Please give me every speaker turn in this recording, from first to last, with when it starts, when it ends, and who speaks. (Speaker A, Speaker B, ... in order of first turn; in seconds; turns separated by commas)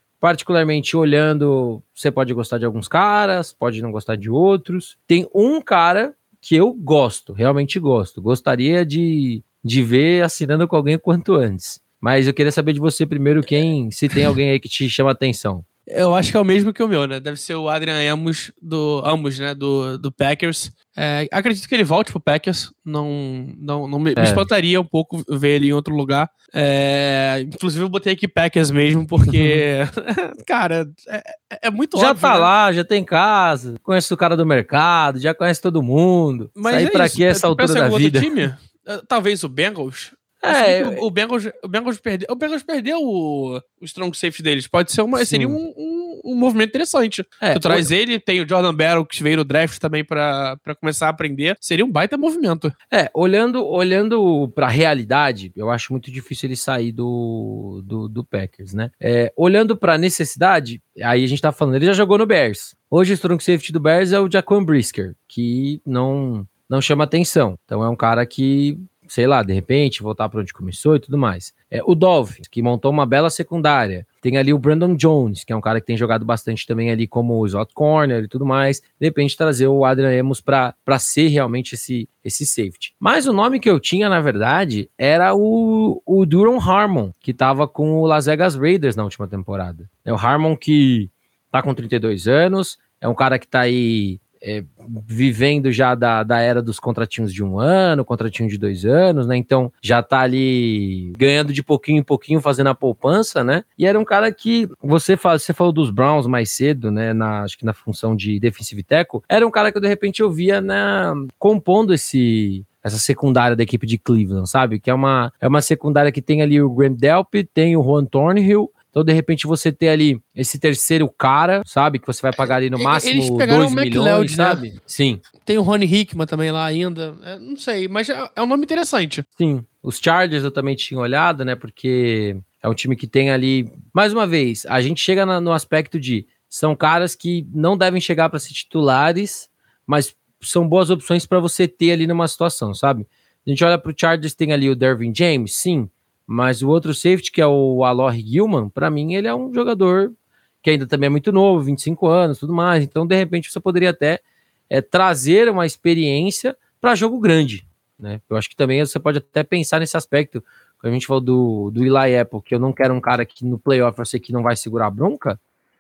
Speaker A: 0.2-15.6, Speaker B: 13.5-14.3, Speaker B: 15.9-32.5, Speaker A: 24.1-24.5, Speaker A: 29.3-29.6, Speaker A: 31.9-38.3, Speaker B: 36.5-52.7, Speaker A: 40.4-41.0, Speaker A: 45.1-45.6, Speaker A: 47.4-47.9, Speaker A: 52.9-125.2, Speaker B: 122.8-124.6, Speaker B: 125.4-129.2, Speaker A: 129.4-165.4